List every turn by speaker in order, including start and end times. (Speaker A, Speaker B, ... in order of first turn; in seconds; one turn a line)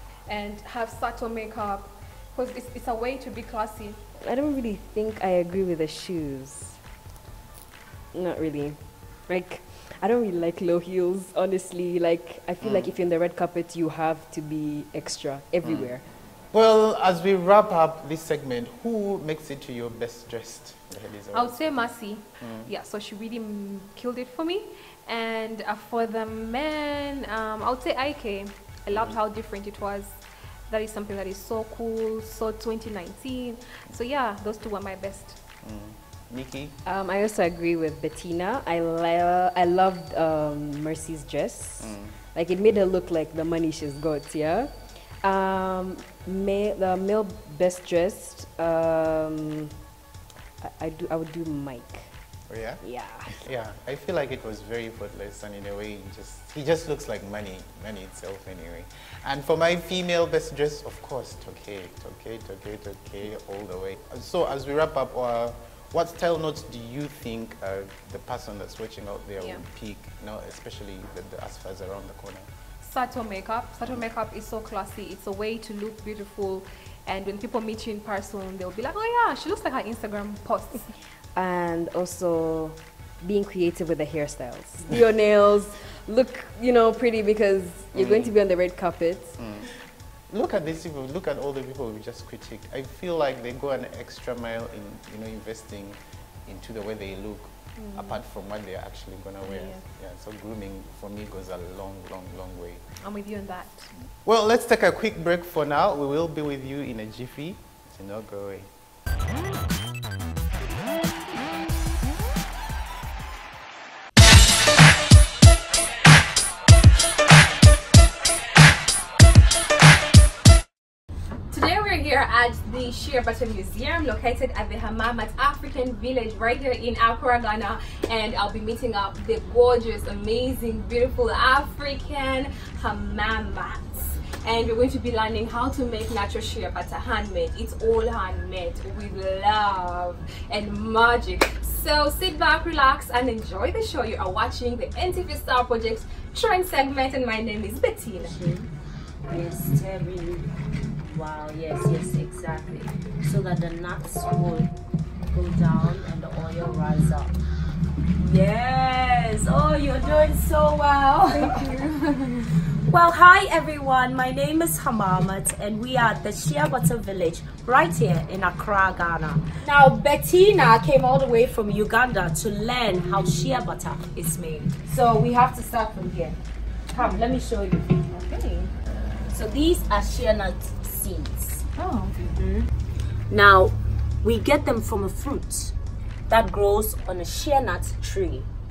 Speaker A: 0.3-4.0
Speaker B: 4.2-6.8
Speaker B: 8.1-16.0
Speaker C: 12.6-12.9
Speaker C: 15.6-15.9
Speaker C: 16.5-22.7
Speaker A: 21.3-35.4
Speaker C: 28.9-29.2
Speaker C: 35.6-36.8
Speaker B: 36.9-44.7
Speaker C: 41.8-42.1
Speaker B: 45.2-49.7
Speaker B: 50.6-52.1
Speaker C: 52.5-52.8
Speaker B: 52.8-53.4
Speaker C: 53.3-72.5
Speaker A: 72.8-80.9
Speaker B: 81.3-89.4
Speaker C: 87.9-88.3
Speaker C: 89.4-89.7
Speaker C: 90.3-102.8
Speaker A: 97.8-98.2
Speaker A: 99.4-99.8
Speaker A: 103.0-103.9
Speaker C: 104.2-108.7
Speaker A: 121.5-148.3
Speaker D: 148.2-148.7
Speaker D: 149.3-154.7
Speaker D: 155.3-157.4
Speaker D: 158.2-161.8
Speaker A: 161.3-162.5
Speaker D: 162.8-176.4
Speaker D: 176.9-178.0
Speaker A: 178.1-178.7
Speaker D: 179.3-181.6
Speaker A: 181.8-182.3
Speaker D: 182.3-182.7
Speaker D: 183.3-185.7
Speaker D: 186.3-188.5